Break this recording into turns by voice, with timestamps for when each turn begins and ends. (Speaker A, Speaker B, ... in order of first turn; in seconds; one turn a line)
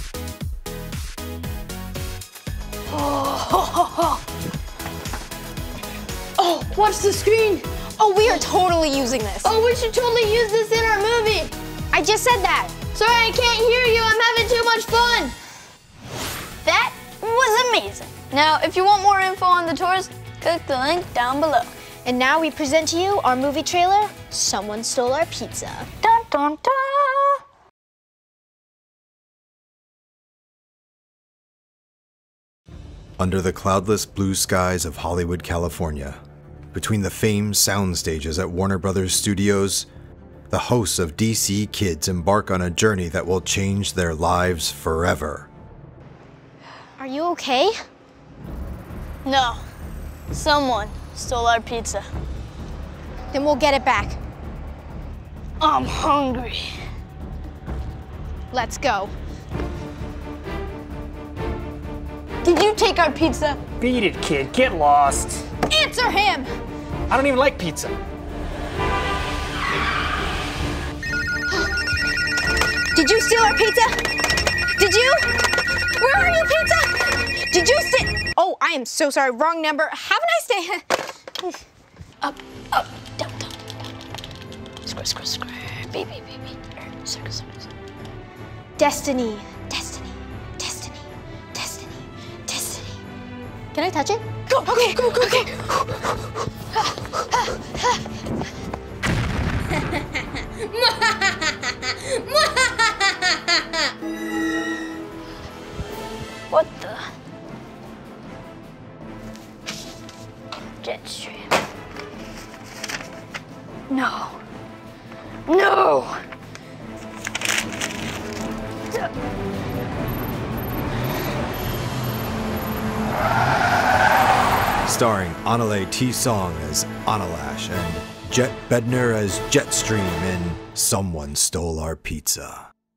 Speaker A: 2.9-4.2
Speaker A: 6.4-7.7
Speaker B: 8.0-9.3
Speaker A: 9.4-11.6
Speaker B: 11.9-12.7
Speaker A: 12.9-15.3
Speaker A: 16.6-21.7
Speaker B: 22.1-25.9
Speaker A: 26.0-27.4
Speaker C: 33.2-36.2
Speaker C: 36.7-39.9
Speaker C: 40.5-45.5
Speaker B: 47.0-47.7
Speaker A: 49.2-49.6
Speaker A: 50.3-52.1
Speaker B: 53.3-54.2
Speaker A: 55.6-56.8
Speaker B: 58.5-59.1
Speaker A: 62.4-63.6
Speaker D: 63.8-65.4
Speaker B: 65.7-66.5
Speaker D: 67.1-68.0
Speaker B: 72.9-73.9
Speaker B: 74.8-80.8
Speaker A: 82.2-83.7
Speaker A: 84.8-87.7
Speaker B: 88.8-91.0
Speaker B: 91.5-93.0
Speaker B: 93.7-95.5
Speaker A: 94.5-95.7
Speaker A: 106.5-107.1
Speaker A: 110.8-111.5
Speaker A: 113.9-114.4
Speaker A: 115.5-116.2
Speaker C: 124.8-132.7